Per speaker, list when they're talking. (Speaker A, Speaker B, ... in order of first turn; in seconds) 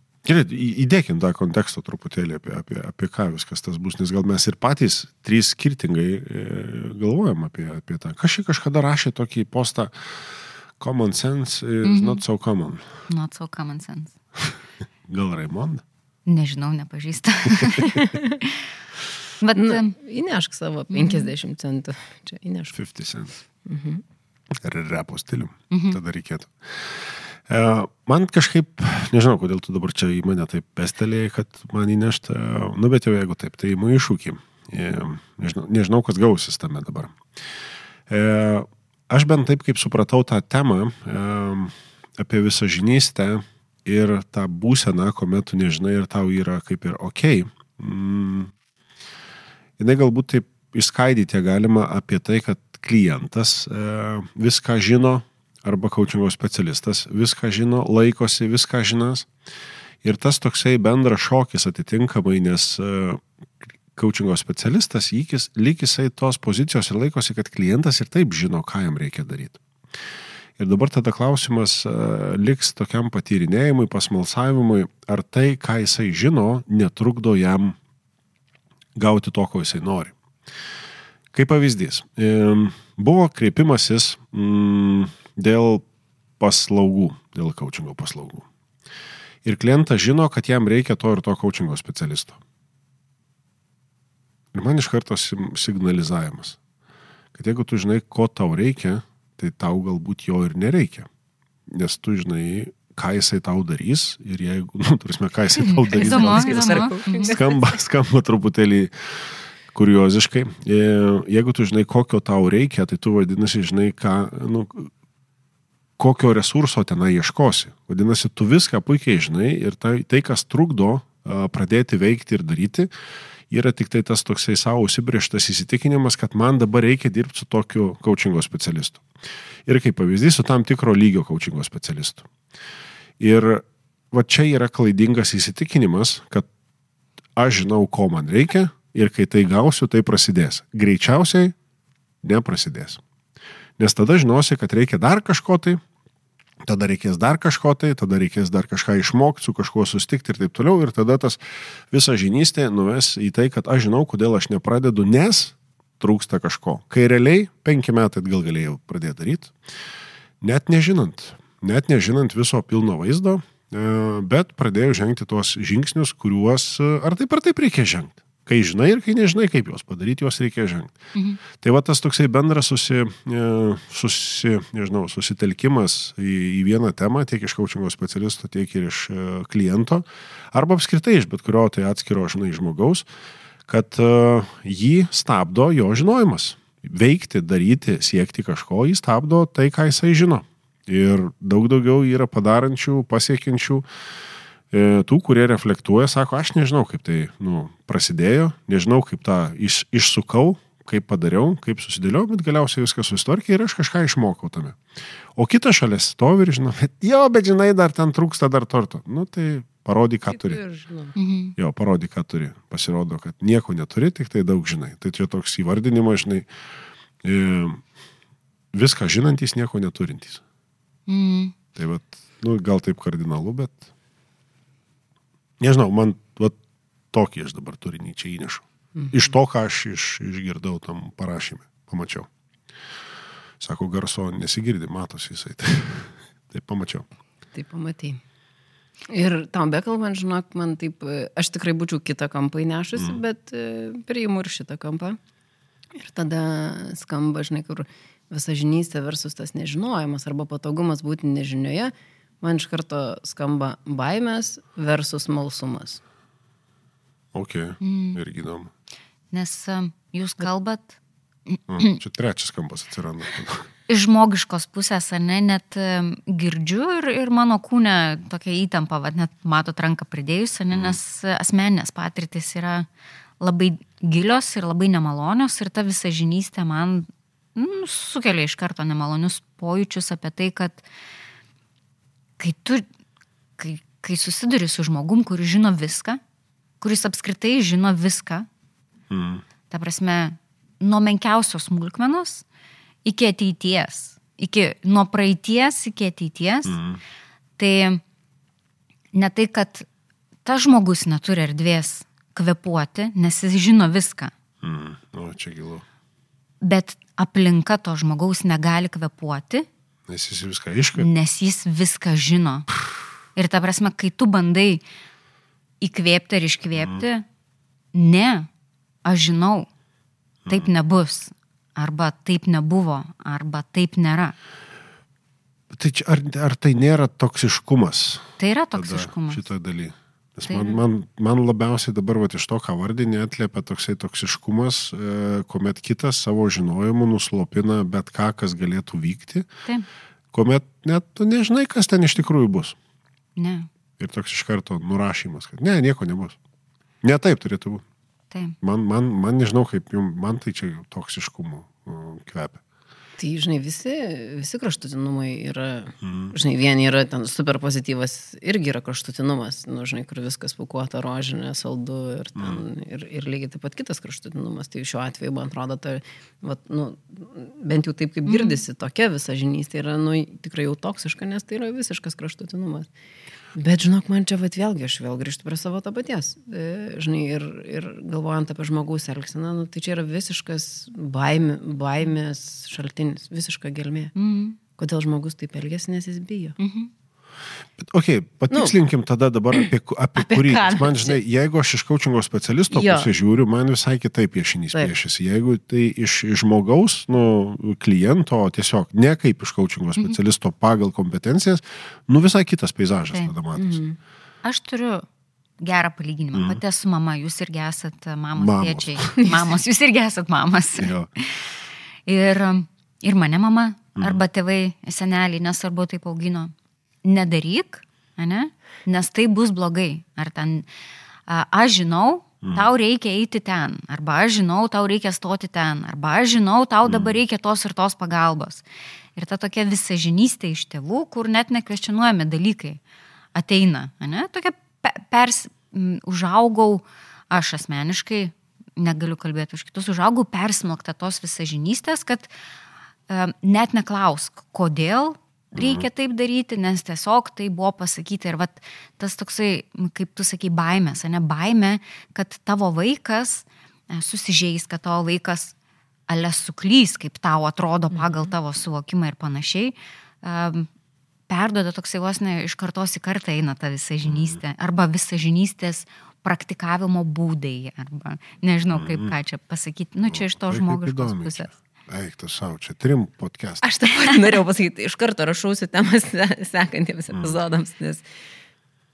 Speaker A: 0.2-10.2, 10.8-12.9, 15.1-15.8, 22.7-23.4, 24.5-37.2, 38.1-48.5, 49.8-59.3, 60.0-63.2, 63.9-69.6, 70.6-77.8, 79.0-80.1, 81.3-85.9, 86.4-88.5, 89.4-92.4, 94.5-96.6, 97.3-101.1, 101.7-114.9, 116.0-122.9, 123.5-129.0, 129.7-132.3, 133.2-136.5, 137.4-141.6, 142.2-143.0, 143.8-145.8, 146.6-151.4, 151.9-159.5, 160.4-170.9, 171.5-183.1, 183.7-193.8, 194.7-204.8, 205.3-210.6, 211.6-216.5, 217.2-217.8, 218.7-220.4, 221.8-223.9, 225.6-226.6, 227.1-232.3, 233.6-237.1, 243.0-243.2, 257.3-258.7, 261.7-263.7, 289.1-289.4, 296.7-297.0, 304.6-305.9, 310.1-311.1, 316.8-317.0, 320.4-320.7, 325.7-339.5, 340.3-342.8, 344.0-346.4, 347.0-347.8, 348.6-352.6, 356.0-356.3, 362.4-362.6, 387.8-403.8, 406.3-406.6, 408.4-409.1, 410.8-411.1, 422.4-422.7, 426.9-427.2, 445.6-445.9, 464.1-464.4, 468.7-469.1, 470.1-473.6
Speaker B: 11.8-12.2, 13.1-14.1, 16.3-18.6, 19.4-19.9, 20.9-21.3, 25.7-26.0, 105.6-107.3, 171.2-171.4, 211.2-211.6, 221.1-221.5, 257.8-258.2, 259.3-262.0, 263.9-272.9, 273.4-280.9, 282.4-282.9, 283.6-286.2, 286.8-288.5, 289.7-292.4, 293.1-296.8, 297.6-298.0, 299.1-299.9, 300.4-304.3, 306.6-309.7, 311.0-312.7, 313.4-314.8, 315.8-317.2, 317.9-318.5, 319.0-319.7, 320.5-324.4, 328.4-329.4, 330.5-330.8, 343.4-343.7, 368.3-368.6, 384.2-384.6, 386.6-386.9, 404.4-405.1, 405.6-411.4, 412.1-416.5, 417.0-420.7, 421.3-428.6, 429.2-432.8, 433.4-442.3, 443.1-455.5, 456.1-460.7, 461.3-471.5
Speaker C: 19.6-22.7, 23.7-24.0, 105.9-107.7, 210.3-211.1, 228.9-229.3, 237.5-238.2, 239.1-245.2, 245.9-256.0, 353.2-372.9, 373.6-384.1, 384.8-386.6, 388.5-388.8, 390.2-391.2, 392.7-393.1, 403.6-404.0, 473.6-478.0